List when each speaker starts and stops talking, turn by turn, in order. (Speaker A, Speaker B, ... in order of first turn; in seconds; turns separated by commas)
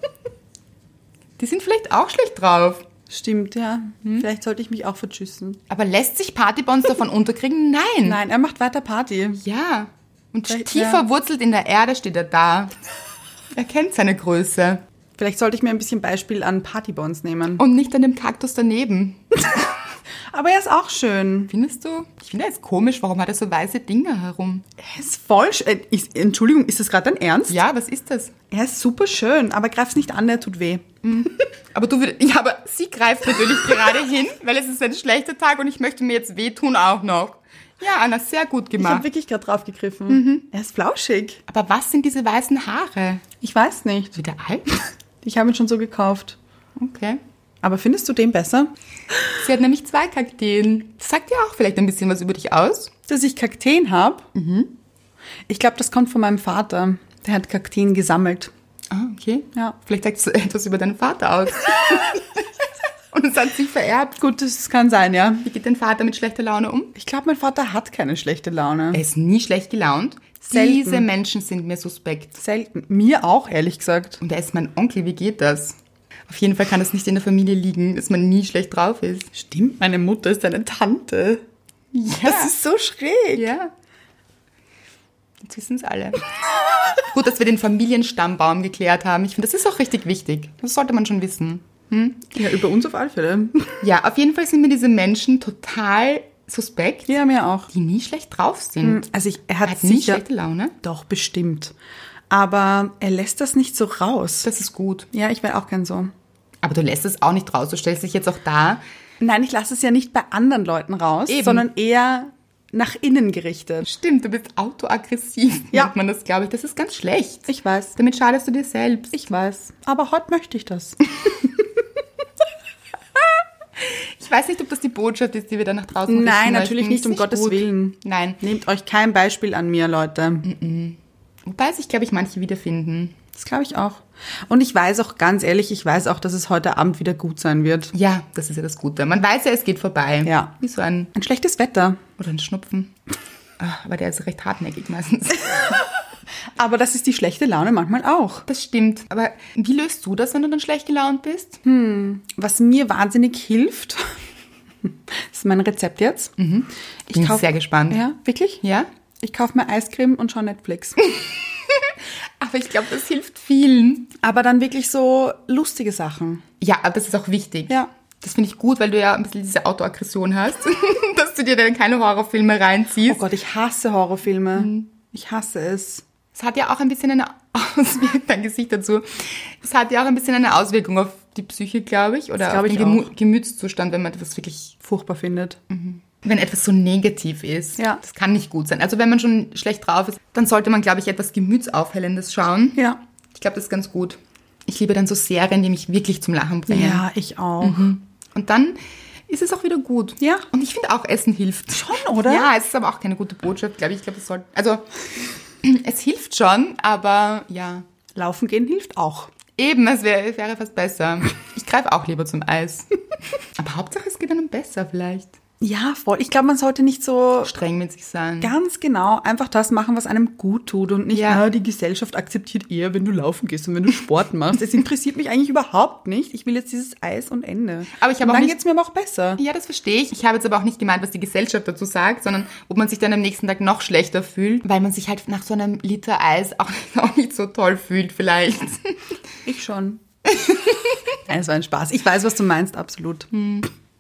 Speaker A: 1.4-2.9, Speaker B: 3.1-5.6, Speaker A: 5.7-8.2, Speaker B: 8.0-9.4, Speaker A: 9.4-12.7, Speaker B: 10.5-11.0, Speaker A: 13.5-14.8, Speaker B: 15.2-17.6, Speaker A: 17.6-19.4, Speaker B: 20.3-21.5, Speaker A: 21.5-24.6, Speaker B: 24.8-27.6, Speaker A: 27.5-28.4, Speaker B: 28.5-30.9, Speaker A: 31.0-39.0, Speaker B: 38.8-41.4, Speaker A: 40.1-40.5, Speaker A: 41.5-43.3, Speaker B: 43.4-44.2, Speaker A: 44.1-44.7, Speaker B: 45.2-46.4, Speaker A: 46.8-47.2, Speaker B: 47.6-48.7, Speaker A: 49.4-52.9, Speaker B: 53.1-54.3, Speaker A: 54.3-54.8, Speaker B: 55.5-58.5, Speaker A: 58.9-62.5, Speaker A: 63.1-64.2, Speaker B: 64.2-65.5, Speaker A: 65.4-67.0, Speaker B: 67.0-69.0, Speaker A: 68.9-72.4, Speaker B: 70.5-71.1, Speaker B: 72.4-74.2, Speaker A: 74.2-79.3, Speaker B: 79.3-81.4, Speaker A: 81.9-82.5, Speaker B: 82.2-83.5, Speaker A: 83.3-83.7, Speaker A: 85.4-86.3, Speaker A: 87.0-92.3, Speaker B: 92.3-93.8, Speaker A: 93.8-97.1, Speaker B: 97.1-97.7, Speaker A: 97.7-99.1, Speaker B: 98.8-100.2, Speaker A: 99.6-100.8, Speaker B: 100.8-101.7, Speaker B: 102.3-104.5, Speaker A: 104.4-105.1, Speaker B: 105.1-106.1, Speaker A: 106.6-108.8, Speaker B: 109.2-113.9, Speaker A: 111.3-111.7, Speaker A: 113.8-119.1, Speaker B: 117.5-117.9, Speaker B: 119.1-121.0, Speaker A: 123.8-128.4, Speaker B: 126.1-130.5, Speaker A: 130.4-133.2, Speaker B: 133.3-137.9, Speaker A: 137.9-141.1, Speaker B: 140.2-140.5, Speaker B: 141.1-142.0, Speaker A: 142.2-142.9, Speaker A: 143.6-145.7, Speaker B: 146.6-148.5, Speaker A: 148.5-151.6, Speaker B: 151.6-154.2, Speaker B: 154.8-156.4, Speaker A: 156.4-158.0, Speaker B: 157.1-158.6, Speaker A: 158.6-158.9, Speaker B: 159.2-161.0, Speaker A: 161.2-164.1, Speaker B: 164.2-166.4, Speaker A: 166.6-173.3, Speaker B: 173.1-176.1, Speaker A: 174.6-174.9, Speaker A: 176.3-184.8, Speaker B: 182.4-183.1, Speaker B: 184.8-185.6, Speaker A: 185.7-192.8, Speaker A: 193.3-197.1, Speaker B: 196.7-197.9, Speaker A: 197.6-204.9, Speaker B: 200.2-200.5, Speaker B: 201.7-202.5, Speaker A: 205.6-207.9, Speaker B: 208.2-209.3, Speaker A: 209.6-212.9, Speaker A: 213.6-215.3, Speaker B: 215.6-217.5, Speaker A: 217.4-218.5, Speaker B: 218.4-229.4, Speaker A: 221.1-221.4, Speaker A: 227.9-228.6, Speaker A: 229.4-239.1, Speaker B: 239.4-240.0, Speaker A: 240.3-240.8, Speaker B: 241.3-243.3, Speaker A: 243.3-243.7